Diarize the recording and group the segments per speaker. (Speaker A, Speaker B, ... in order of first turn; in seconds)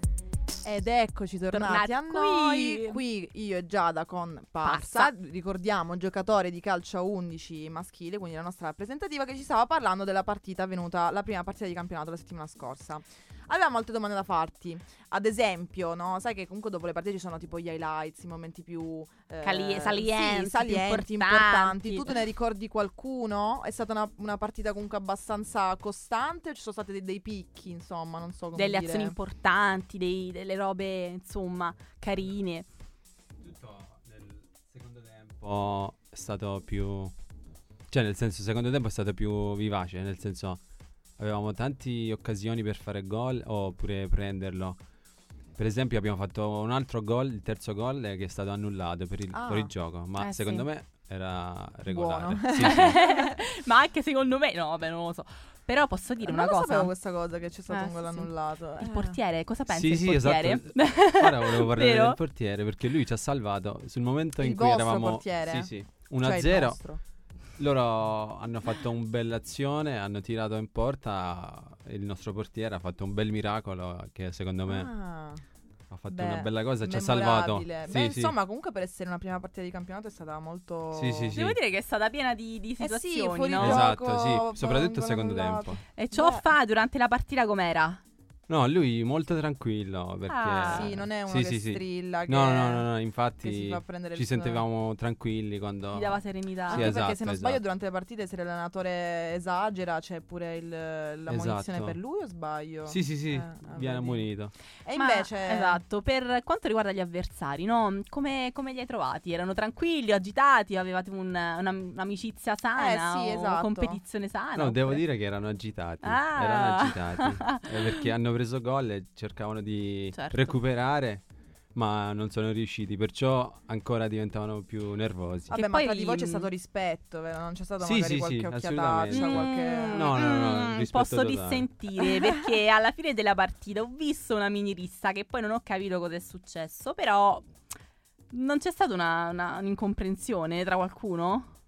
Speaker A: 0.6-29.1, 49.3-49.7, 51.9-53.3, 56.2-59.2, 64.4-65.7, 66.2-67.0, 74.7-75.4, 76.1-81.4, 82.8-86.5, 90.7-92.9, 93.4-94.6, 96.7-104.3, 104.8-105.8, 112.8-114.0, 125.5-130.2
Speaker B: 1.5-3.0, 4.6-5.1, 19.4-22.1, 28.5-32.7, 50.2-50.6, 52.6-56.9, 57.7-62.2, 81.3-83.8, 86.0-88.0, 90.3-90.9, 95.9-96.9, 105.0-115.0, 116.0-117.7, 120.1-120.6, 125.5-126.5, 129.1-137.5, 138.3-141.5
Speaker C: 33.4-37.1, 37.9-40.6, 41.2-44.8, 45.5-53.0, 59.7-66.8, 67.6-74.9, 75.9-78.3, 80.9-81.6, 83.6-85.8, 88.5-97.6, 101.3-102.0, 102.8-104.5, 114.5-125.5, 127.8-131.7